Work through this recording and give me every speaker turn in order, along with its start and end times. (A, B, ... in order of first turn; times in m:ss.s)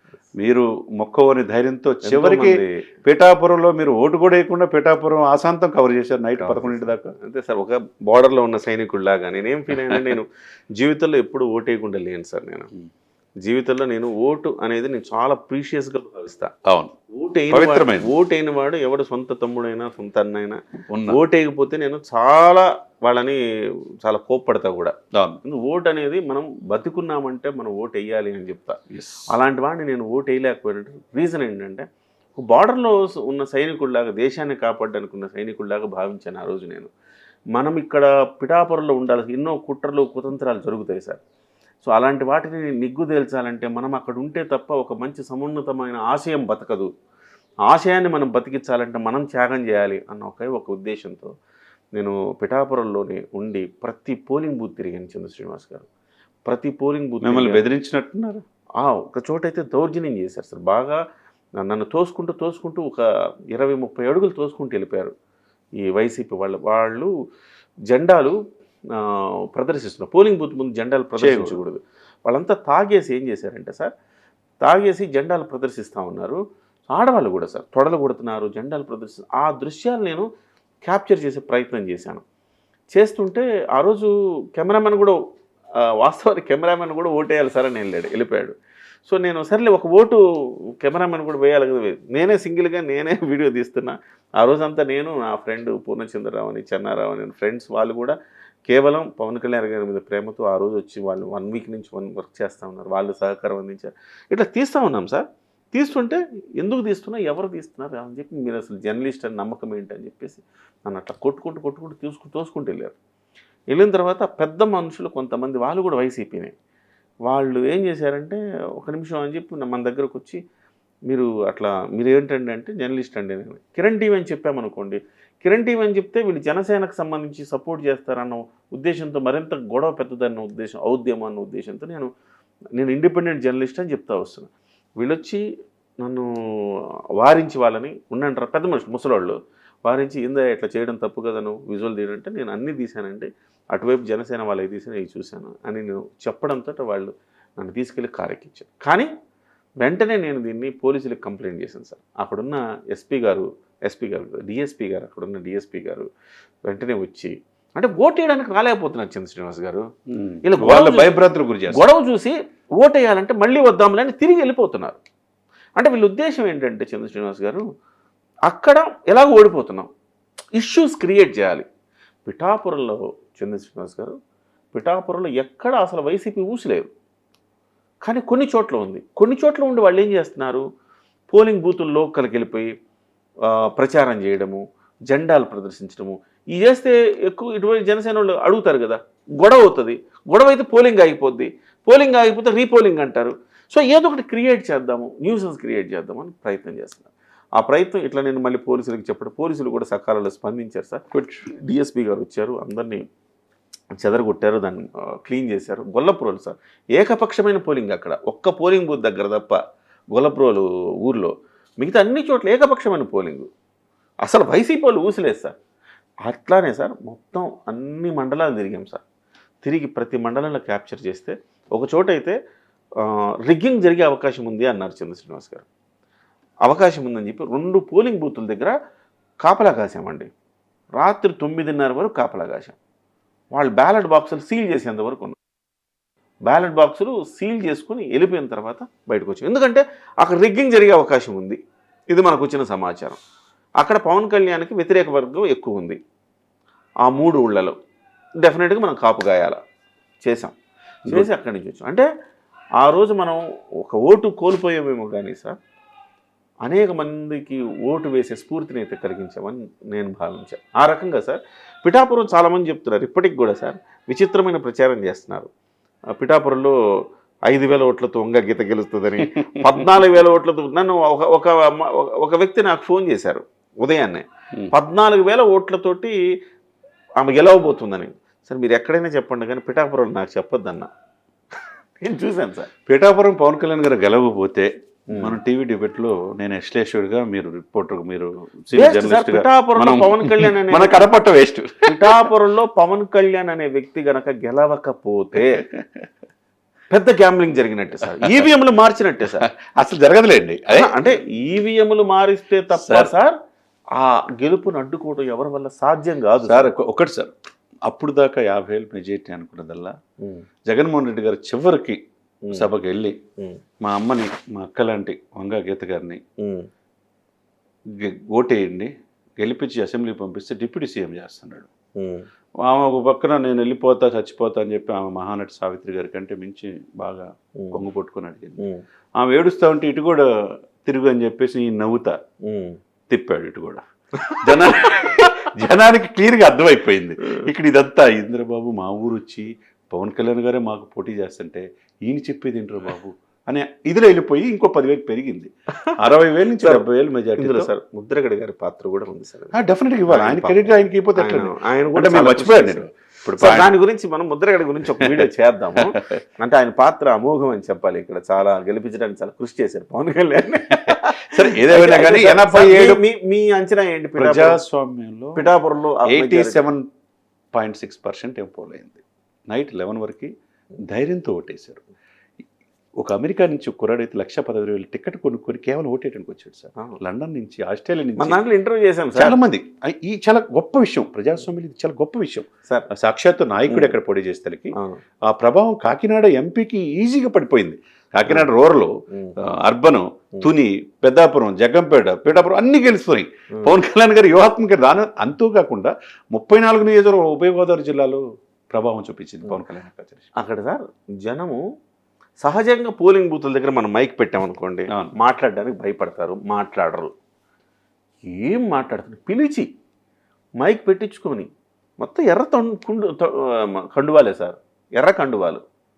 0:00.3-0:07.1 A
0:02.0-0:02.8 B
0:06.4-0:12.7 B
0:13.4-0:16.5 B
0:16.6-0:16.9 A
0:17.1-0:23.4 B
0:17.5-0:18.1 A
0:20.9-0:21.2 A
0:24.0-0:28.8 B
0:25.1-0:25.4 A
0:28.9-0:29.2 A
0:29.3-0:36.9 B
0:37.5-0:41.2 B
0:41.8-0:46.9 B
0:47.7-0:51.3 B
0:52.0-0:55.9 B
0:56.4-0:57.6 B
0:57.2-0:58.4 A
0:58.8-1:01.0 B
1:01.6-1:05.1 B
1:05.8-1:07.1 B
1:07.9-1:08.4 B
1:08.9-1:13.9 B
1:11.2-1:11.6 A
1:14.6-1:20.3 B
1:20.8-1:22.2 B
1:22.9-1:25.2 B
1:25.8-1:28.5 B
1:29.0-1:30.2 B
1:30.7-1:38.1 B
1:38.7-1:53.0 B
1:53.7-1:56.5 B
1:57.2-2:00.4 B
2:01.1-2:12.1 B
2:12.7-2:15.4 B
2:16.0-2:29.1 B
2:29.8-2:36.1 B
2:36.6-2:39.9 B
2:40.1-2:41.8 A
2:40.4-2:41.2 B
2:41.7-2:45.0 B
2:45.8-2:47.6 B
2:48.5-2:49.9 B
2:50.5-2:51.6 B
2:52.2-2:54.2 B
2:54.7-2:56.9 B
2:58.0-3:00.6 B
3:01.3-3:02.7 B
3:03.4-3:23.0 B
3:21.1-3:21.5 A
3:24.0-3:29.6 B
3:30.1-3:33.5 B
3:34.2-3:35.5 B
3:36.2-3:39.0 B
3:39.6-3:42.4 B
3:43.0-3:45.6 B
3:46.6-3:48.7 B
3:49.4-3:50.3 B
3:51.0-3:52.8 B
3:53.5-3:55.4 B
3:56.5-4:01.6 B
4:02.1-4:03.2 B
4:03.8-4:06.0 B
4:07.0-4:07.7 B
4:08.4-4:09.6 B
4:10.2-4:10.5 B
4:11.1-4:12.0 B
4:12.8-4:15.5 B
4:16.6-4:25.5 B
4:26.1-4:26.7 B
4:27.5-4:36.2 B
4:29.2-4:30.0 A
4:37.2-4:40.9 B
4:42.0-4:42.7 B
4:42.8-4:52.3 A
4:45.1-4:45.4 B
4:48.7-4:51.1 B
4:51.8-4:55.7 B
4:56.9-4:59.5 B
4:59.4-5:01.1 A
5:00.7-5:03.4 B
5:02.8-5:03.1 A
5:03.9-5:06.7 B
5:06.4-5:07.3 A
5:07.8-5:10.0 A
5:10.7-5:12.0 A
5:12.5-5:13.2 A
5:13.8-5:16.2 A
5:16.4-5:16.7 B
5:17.9-5:21.7 A
5:22.0-5:22.3 B
5:22.6-5:28.6 A
5:29.2-5:32.2 A
5:32.4-5:32.8 B
5:33.1-5:47.7 A
5:47.4-6:04.6 B
5:49.5-5:53.7 A
5:54.9-5:56.1 A
6:00.7-6:03.0 A
6:04.2-6:05.4 A
6:05.3-6:06.6 B
6:06.1-6:06.9 A
6:07.5-6:11.8 A
6:13.0-6:18.4 A
6:18.2-6:19.4 B
6:19.2-6:40.3 A
6:23.7-6:23.9 B
6:24.7-6:25.0 B
6:40.4-6:41.6 B
6:42.4-6:47.1 B
6:44.9-6:45.2 A
6:48.2-6:49.7 B
6:50.6-6:55.6 B